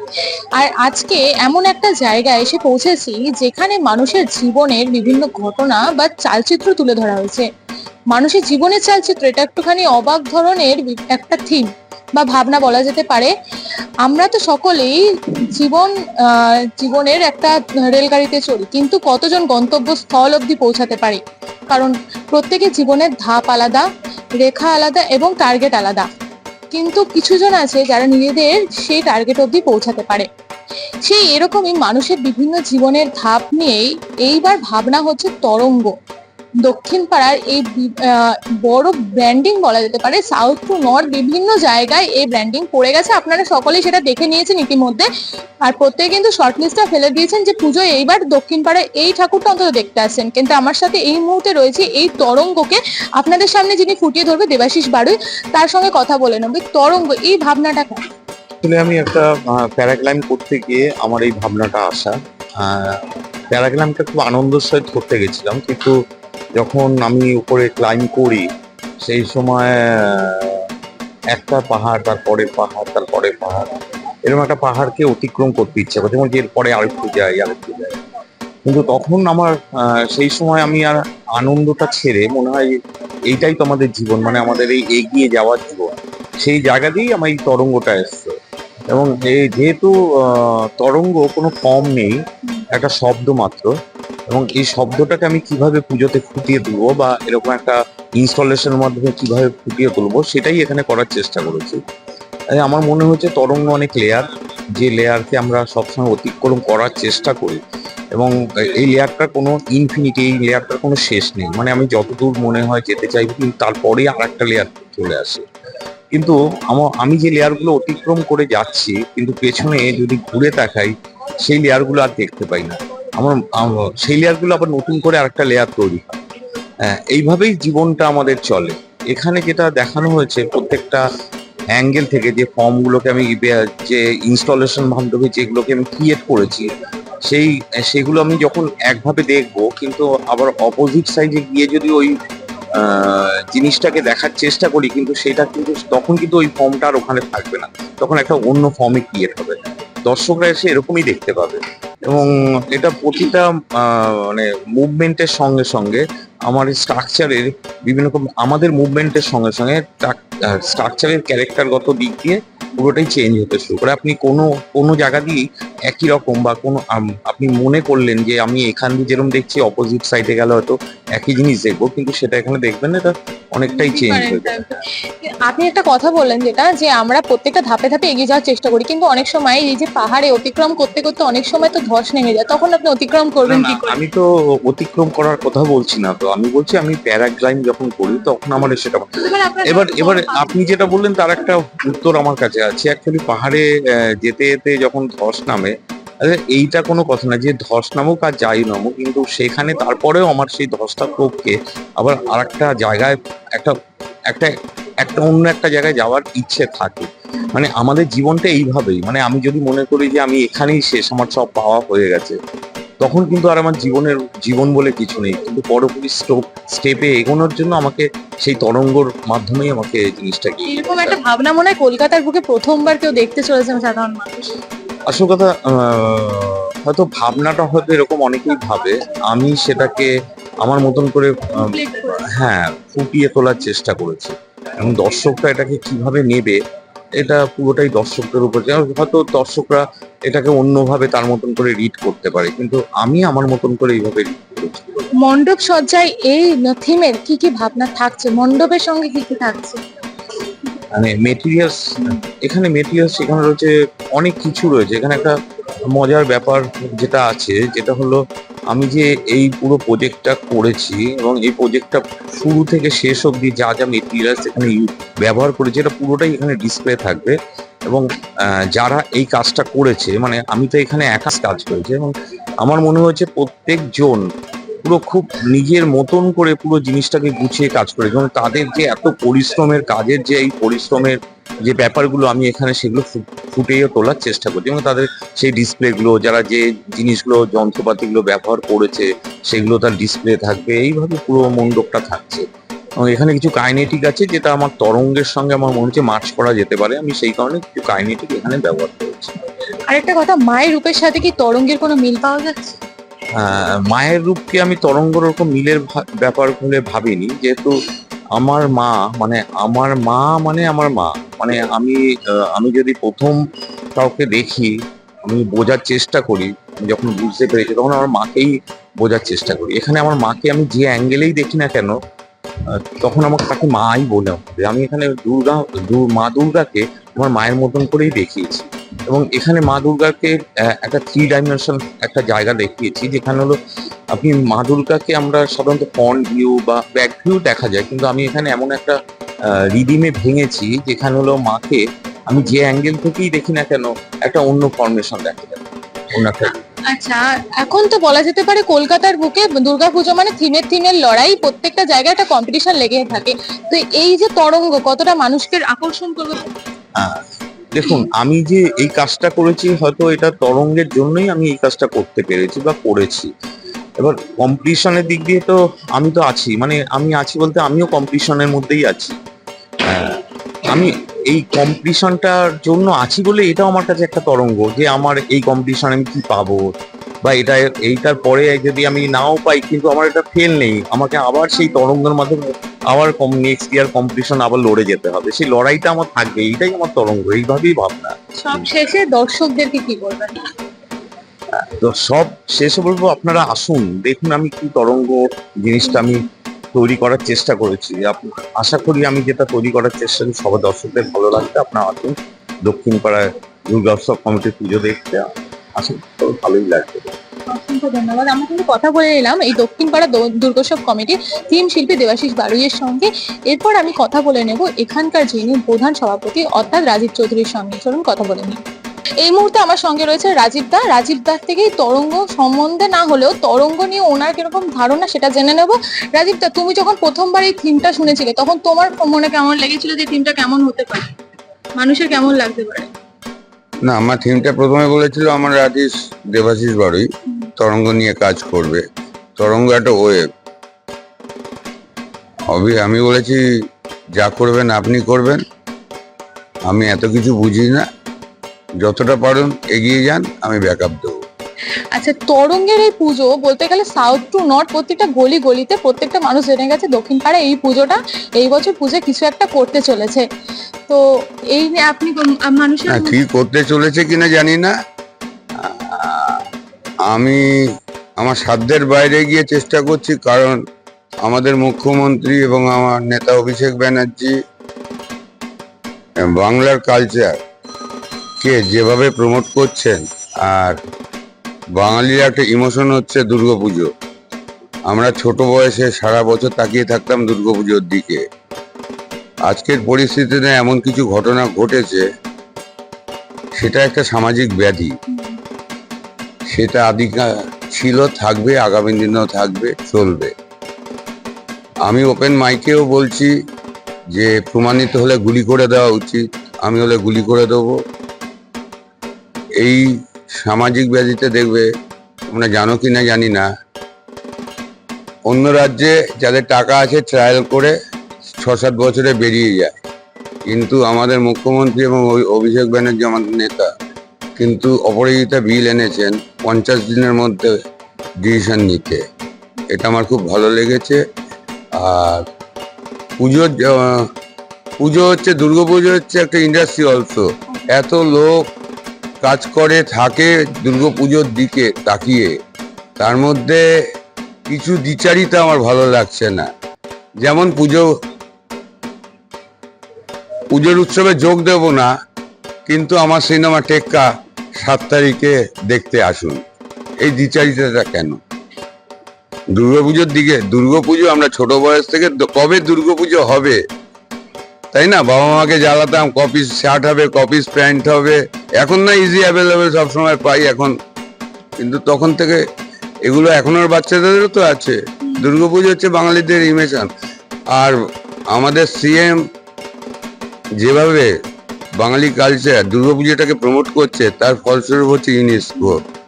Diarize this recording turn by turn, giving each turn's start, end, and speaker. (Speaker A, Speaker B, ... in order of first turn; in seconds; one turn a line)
Speaker A: 0.5-7.5
Speaker A: 8.1-13.3
Speaker A: 14.0-14.9
Speaker A: 15.5-23.9
Speaker A: 24.4-26.0
Speaker A: 26.7-30.3
Speaker A: 31.0-35.9
Speaker A: 36.6-45.1
Speaker A: 45.6-58.0
Speaker B: 58.6-65.9
Speaker B: 66.5-68.5
Speaker B: 69.0-70.6
Speaker B: 71.3-73.7
Speaker B: 74.2-78.0
Speaker B: 78.7-82.8
Speaker B: 83.3-88.3
Speaker B: 88.9-92.2
Speaker B: 92.7-93.7
Speaker B: 94.3-101.8
Speaker B: 102.5-104.2
Speaker B: 104.8-107.6
Speaker B: 108.1-115.4
Speaker B: 116.1-120.9
Speaker B: 121.4-126.2
Speaker B: 126.9-131.0
Speaker B: 131.8-136.7
Speaker B: 137.2-142.2
Speaker B: 142.8-174.7
Speaker A: 173.7-174.7
Speaker A: 175.2-184.0
Speaker B: 183.4-189.1
Speaker A: 189.2-190.6
Speaker B: 189.7-195.7
Speaker B: 196.2-203.7
Speaker B: 204.3-212.4
Speaker B: 213.0-221.2
Speaker A: 220.7-224.5
Speaker B: 225.1-230.1
Speaker B: 230.6-231.7
Speaker A: 231.6-232.2
Speaker B: 232.3-236.6
Speaker B: 237.2-245.0
Speaker A: 245.2-249.8
Speaker B: 250.9-255.3
Speaker B: 255.9-258.2
Speaker B: 258.7-267.4
Speaker B: 267.9-274.2
Speaker B: 274.8-292.4
Speaker B: 293.0-299.5
Speaker A: 299.9-302.9
Speaker B: 303.4-307.7
Speaker B: 308.3-313.4
Speaker B: 313.9-314.7
Speaker B: 315.2-321.9
Speaker B: 322.7-333.5
Speaker B: 334.1-338.9
Speaker B: 339.5-346.6
Speaker A: 346.9-356.5
Speaker B: 357.7-363.3
Speaker B: 364.0-369.2
Speaker B: 369.9-376.7
Speaker B: 377.2-388.7
Speaker A: 388.4-390.5
Speaker B: 391.6-407.1
Speaker A: 407.5-418.6
Speaker A: 419.2-431.1
Speaker A: 431.8-432.9
Speaker C: 433.8-438.8
Speaker C: 439.4-440.2
Speaker C: 442.5-443.4
Speaker C: 444.2-445.4
Speaker C: 446.6-447.8
Speaker C: 448.8-451.1
Speaker A: 451.9-460.2
Speaker A: 460.9-463.2
Speaker C: 462.9-464.7
Speaker C: 465.6-466.4
Speaker C: 467.1-467.4
Speaker C: 468.2-470.6
Speaker C: 471.2-474.4
Speaker C: 476.4-477.3
Speaker C: 478.4-480.8
Speaker C: 481.8-483.9
Speaker C: 484.9-488.2
Speaker C: 489.5-492.0
Speaker C: 493.6-494.9
Speaker A: 495.1-495.4
Speaker C: 496.5-500.3
Speaker C: 501.9-503.3
Speaker C: 504.1-507.8
Speaker C: 510.4-511.7
Speaker C: 512.3-513.5
Speaker C: 515.3-517.7
Speaker C: 518.4-519.7
Speaker C: 520.5-523.7
Speaker C: 524.4-527.5
Speaker C: 528.2-529.0
Speaker C: 529.7-531.0
Speaker C: 531.8-532.2
Speaker C: 533.2-534.1
Speaker C: 534.8-538.4
Speaker C: 539.2-542.3
Speaker C: 543.0-543.6
Speaker C: 544.5-546.5
Speaker C: 547.2-547.9
Speaker C: 550.5-551.9
Speaker C: 552.7-554.0
Speaker C: 554.6-556.4
Speaker C: 557.0-558.2
Speaker C: 559.5-563.6
Speaker C: 564.7-570.7
Speaker C: 571.6-572.4
Speaker C: 573.0-576.9
Speaker C: 578.3-579.2
Speaker C: 580.6-581.1
Speaker C: 581.8-585.8
Speaker A: 585.5-585.8